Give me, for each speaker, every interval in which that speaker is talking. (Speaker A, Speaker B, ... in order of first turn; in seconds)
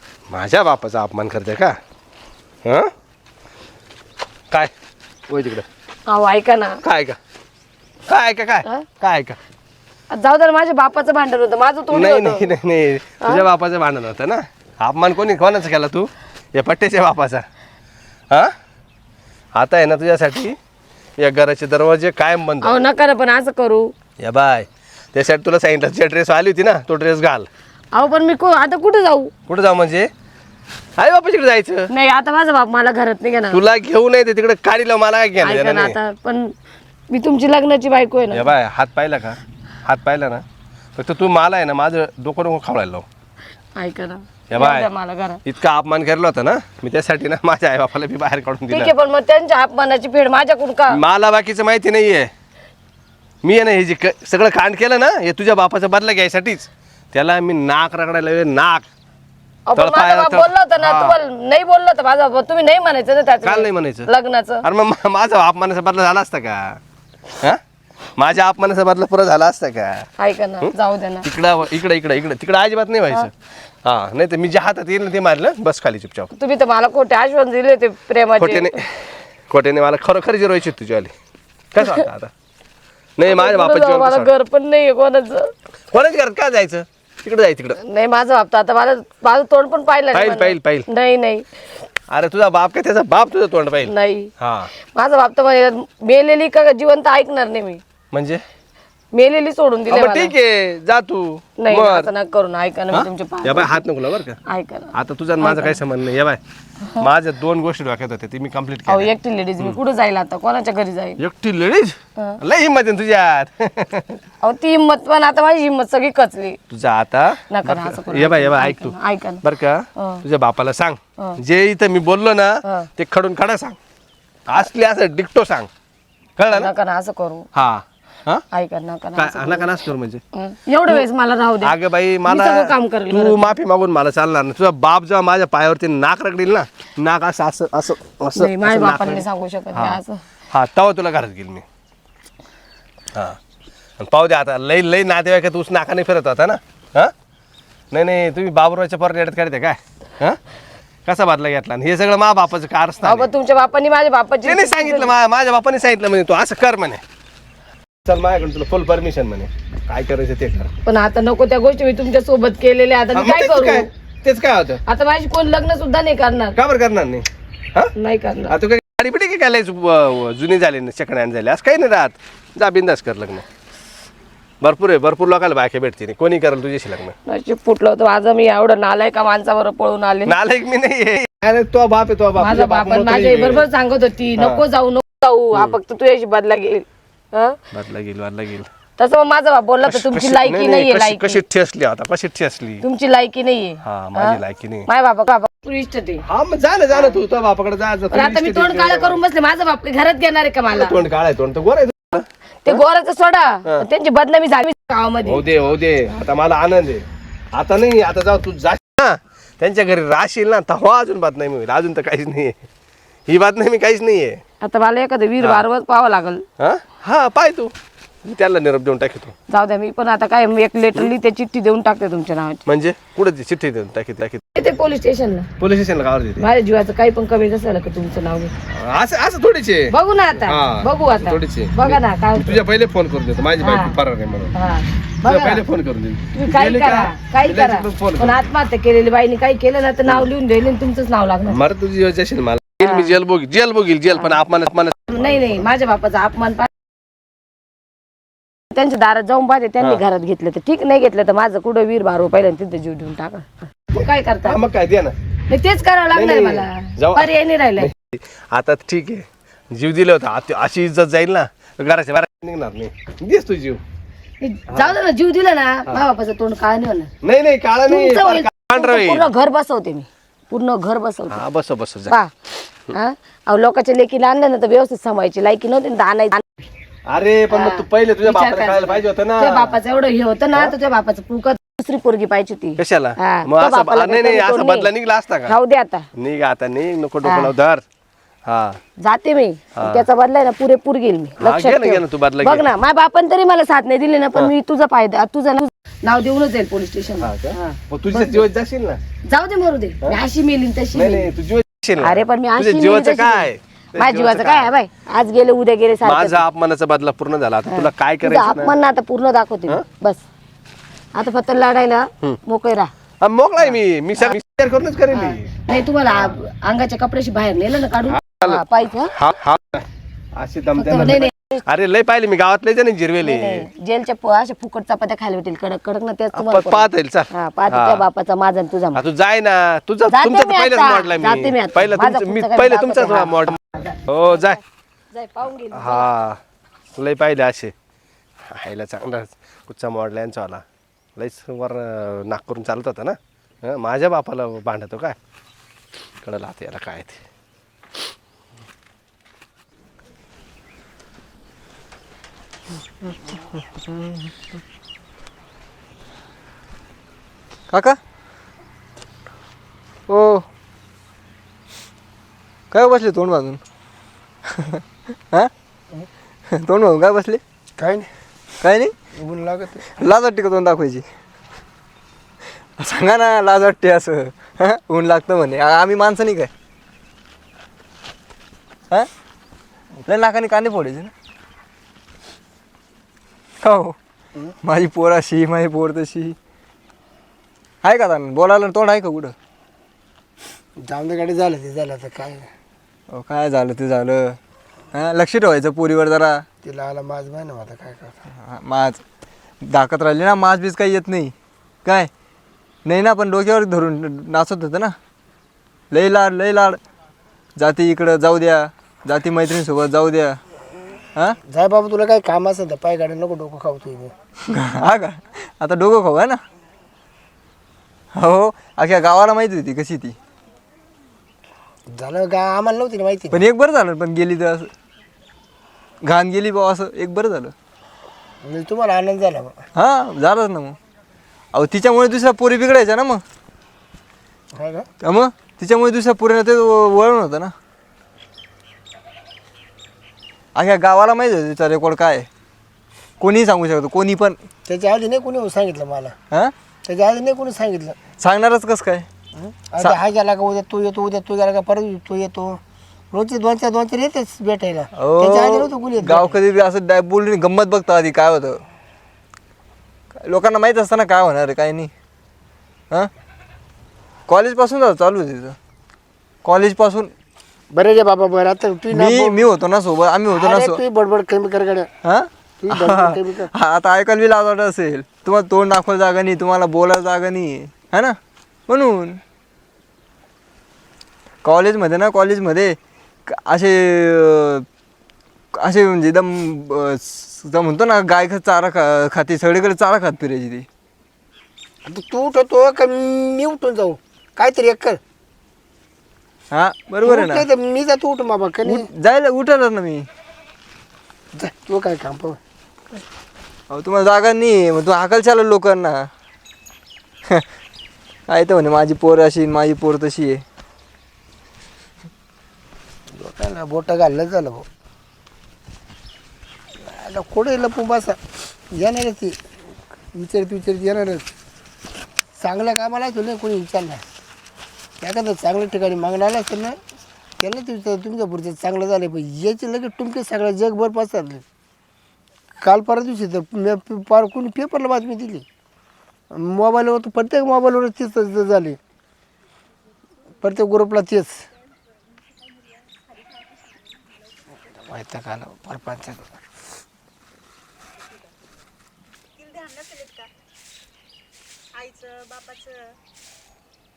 Speaker A: 0.3-1.8, 2.6-2.9, 5.3-5.6, 6.8-7.2, 8.1-9.4, 11.9-17.4, 19.5-20.6, 21.2-22.8, 24.2-27.5, 29.5-30.1, 31.0-31.9, 33.5-36.0, 38.3-40.4, 41.0-43.0, 44.5-44.9, 45.4-48.9, 50.9-52.3, 53.4-58.9, 59.8-61.2, 63.4-64.1, 64.6-66.8, 68.2-70.1, 71.2-73.3, 73.8-76.3, 78.4-78.9, 79.5-81.1, 81.7-82.3, 83.2-84.3, 85.9-87.8, 90.1-90.8, 92.1-94.7, 98.1-98.4, 99.9-102.1, 102.9-104.4, 104.9-106.4, 107.0-109.8, 111.2-114.2, 116.7-123.8, 124.5-125.7, 126.4-126.7, 127.5-128.4, 129.1-130.2, 131.6-141.6, 144.0-147.1, 147.9-150.4, 151.1-153.3, 154.4-157.0, 158.1-160.7, 163.1-164.8, 166.5-167.9, 168.5-173.4, 174.6-177.1, 180.2-183.7, 184.4-184.6, 187.7-188.7, 189.8-192.8, 193.8-194.9, 196.3-199.2, 200.7-202.8, 205.2-212.6, 213.3-214.4, 215.4-215.6, 216.6-217.7, 218.2-219.3, 222.7-224.4, 225.6-226.4, 228.7-234.5, 235.2-238.5, 241.5-245.7, 254.4-255.1, 256.1-263.8, 264.7-265.0, 267.2-269.3, 271.3-272.1, 277.1-279.8, 282.8-285.5, 286.1-287.8, 288.4-288.8, 289.8-290.1, 291.4-292.6, 297.2-299.0, 300.9-304.7, 306.0-308.7, 313.2-315.5, 316.1-316.3, 318.1-323.6, 326.3-328.0, 328.9-334.6, 335.7-336.4, 336.9-337.7, 338.5-340.6, 341.1-345.1, 346.2-347.2, 542.5-542.9
Speaker B: 6.1-6.8, 10.1-12.4, 22.6-23.9, 27.9-29.3, 31.9-33.6, 35.4-36.5, 37.1-38.5, 43.8-45.4, 48.7-51.0, 59.7-64.6, 70.2-71.3, 76.3-78.8, 83.2-85.5, 87.8-91.5, 93.9-94.3, 94.9-97.8, 99.1-100.3, 101.6-103.8, 104.5-105.8, 108.9-111.2, 114.4-116.6, 117.5-119.4, 120.0-120.2, 126.5-127.5, 128.5-129.7, 130.3-131.7, 132.2-133.5, 138.3-140.2, 153.0-155.1, 160.8-163.9, 164.8-166.6, 167.9-168.6, 177.2-180.3, 182.4-187.6, 189.0-191.4, 192.8-196.2, 196.9-197.2, 198.1-200.9, 202.6-205.4, 214.6-216.4, 219.5-222.6, 224.5-225.5, 226.4-228.5, 229.9-232.6, 233.6-234.0, 234.5-235.6, 236.3-241.6, 242.8-243.1, 244.1-244.4, 245.1-246.7, 248.7-254.6, 255.5-257.9, 264.4-267.1, 267.9-271.4, 272.9-276.5, 277.5-284.9, 285.4-286.1, 287.2-287.5, 289.0-298.4, 299.3-301.3, 302.0-306.4, 307.7-310.2, 311.1-312.9, 313.7-314.3, 315.1-319.1, 320.8-321.6, 323.2-329.0, 330.1-334.6, 335.1-336.1
Speaker C: 357.7-358.0, 360.1-360.4, 362.7-363.6, 364.5-365.5, 366.5-367.4, 368.6-368.9, 369.9-371.0, 372.8-376.5, 380.1-381.1, 383.6-383.9, 384.6-386.4, 387.8-389.3, 393.1-394.4, 394.9-396.4, 398.4-399.0, 399.6-401.3, 401.8-402.1, 402.8-404.9, 405.9-406.8, 407.6-410.4, 414.5-416.4, 418.1-420.1, 423.3-424.7, 426.0-427.5, 429.7-430.8, 431.5-433.2, 435.0-437.5, 440.5-442.3, 443.2-444.4, 448.2-449.1, 454.9-458.6, 460.2-461.9, 464.3-465.6, 466.4-467.1, 468.9-470.8, 472.1-478.2, 478.7-479.2, 481.4-482.8, 483.3-484.6, 485.5-490.6, 496.5-497.4, 498.6-500.1, 503.7-506.1, 508.3-510.4
Speaker D: 367.8-368.1, 369.1-369.8, 390.8-392.4, 396.6-398.1, 411.5-414.1, 421.9-423.4, 428.4-429.6, 434.5-434.9, 444.6-446.1, 446.9-448.0, 449.4-452.6, 453.1-456.4, 467.7-469.4, 470.3-471.9, 472.6-473.5, 491.9-495.0, 497.0-498.8, 501.3-502.4, 513.1-514.6, 516.8-518.2, 518.7-519.4, 520.1-521.2, 522.4-524.0, 525.0-526.8, 527.4-531.4, 532.6-535.4, 536.3-538.8, 540.4-541.4, 544.7-546.4
Speaker E: 543.0-544.0, 549.4-550.3, 551.8-552.8